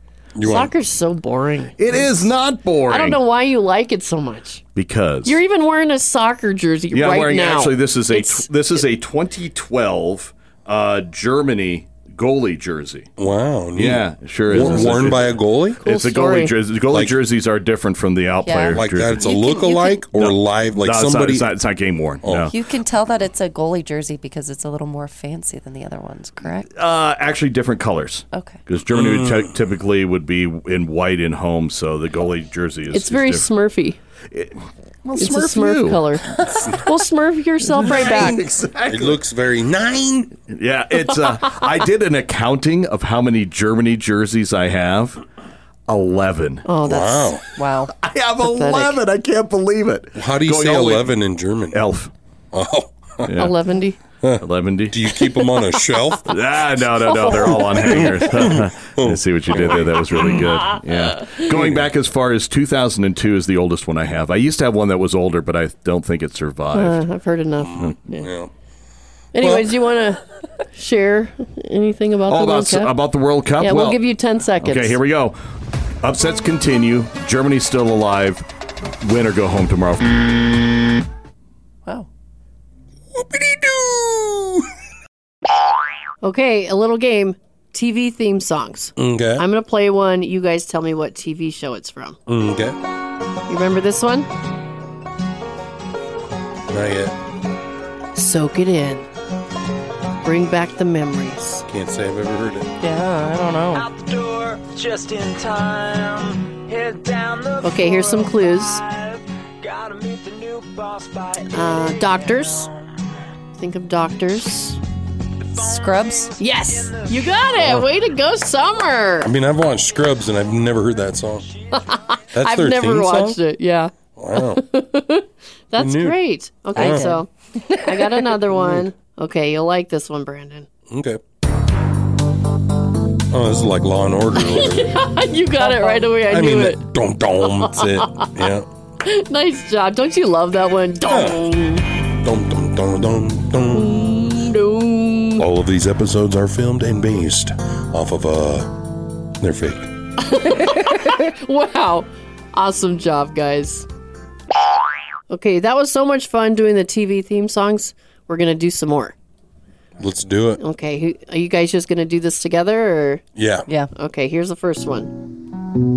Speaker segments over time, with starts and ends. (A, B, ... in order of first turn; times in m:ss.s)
0:00.4-0:00.7 A
0:00.4-0:02.3 B
0:01.8-0:03.2 C
0:02.9-0:04.6 B
0:04.8-0:05.4 C
0:05.2-0:08.8 B
0:06.9-0:13.1 C
0:13.2-0:15.8 A
0:13.8-0:19.2 C
0:15.8-0:16.5 B
0:16.9-0:17.2 A
0:18.4-0:19.8 D
0:18.7-0:21.5 A
0:20.1-0:22.5 C
0:22.2-0:22.5 A
0:22.5-0:26.7 D
0:26.7-0:33.5 C
0:28.3-0:28.6 D
0:28.9-0:29.5 A
0:32.9-0:34.0 B
0:34.3-0:36.7 C
0:35.2-0:36.2 B
0:36.7-0:38.4 B
0:37.8-0:39.2 C
0:37.8-0:38.3 A
0:38.8-0:40.3 A
0:40.5-0:45.2 C
0:45.9-0:46.6 C
0:46.6-0:47.3 B
0:46.8-0:47.4 A
0:47.6-0:47.9 D
0:48.0-0:51.1 C
0:48.4-0:49.0 B
0:50.2-0:51.8 A
0:51.7-0:52.1 C
0:52.5-0:53.3 A
0:53.2-0:53.5 C
0:53.3-0:54.0 B
0:54.2-0:56.3 A
0:54.4-0:55.0 C
0:56.2-1:07.0 C
0:57.2-0:58.0 B
0:57.6-1:00.4 A
1:01.4-1:01.9 A
1:06.7-1:08.3 B
1:07.6-1:08.5 A
1:09.3-1:12.9 B
1:09.4-1:09.7 A
1:12.3-1:14.0 C
1:13.6-1:15.0 B
1:14.6-1:15.4 C
1:16.0-1:18.4 C
1:19.0-1:20.4 C
1:23.1-1:24.6 A
1:26.2-1:32.2 B
1:29.0-1:29.4 A
1:32.3-1:32.8 A
1:33.5-1:34.3 B
1:36.7-1:37.2 A
1:38.1-1:39.0 B
1:40.2-1:41.6 B
1:41.7-1:42.7 A
1:42.8-1:43.9 D
1:43.7-1:52.7 E
1:47.6-1:48.8 B
1:51.5-1:52.7 B
1:53.6-1:54.8 B
1:55.6-1:57.4 E
1:55.6-1:56.3 D
1:56.4-1:59.3 B
1:57.6-1:57.8 A
1:59.2-2:01.5 A
2:01.7-2:10.7 B
2:02.3-2:03.4 A
2:04.2-2:04.6 A
2:05.8-2:06.2 A
2:06.7-2:07.1 A
2:06.8-2:08.4 D
2:10.9-2:11.2 A
2:13.3-2:15.0 A
2:14.3-2:16.8 B
2:15.6-2:16.1 D
2:16.2-2:18.7 A
2:17.4-2:18.3 B
2:19.0-2:21.8 B
2:21.0-2:21.5 A
2:22.1-2:24.0 A
2:23.7-2:25.4 B
2:25.4-2:28.8 A
2:29.4-2:29.9 A
2:30.2-2:33.8 B
2:35.3-2:39.1 B
2:40.0-2:40.6 A
2:40.6-2:43.2 B
2:43.3-2:43.7 A
2:43.9-2:45.1 B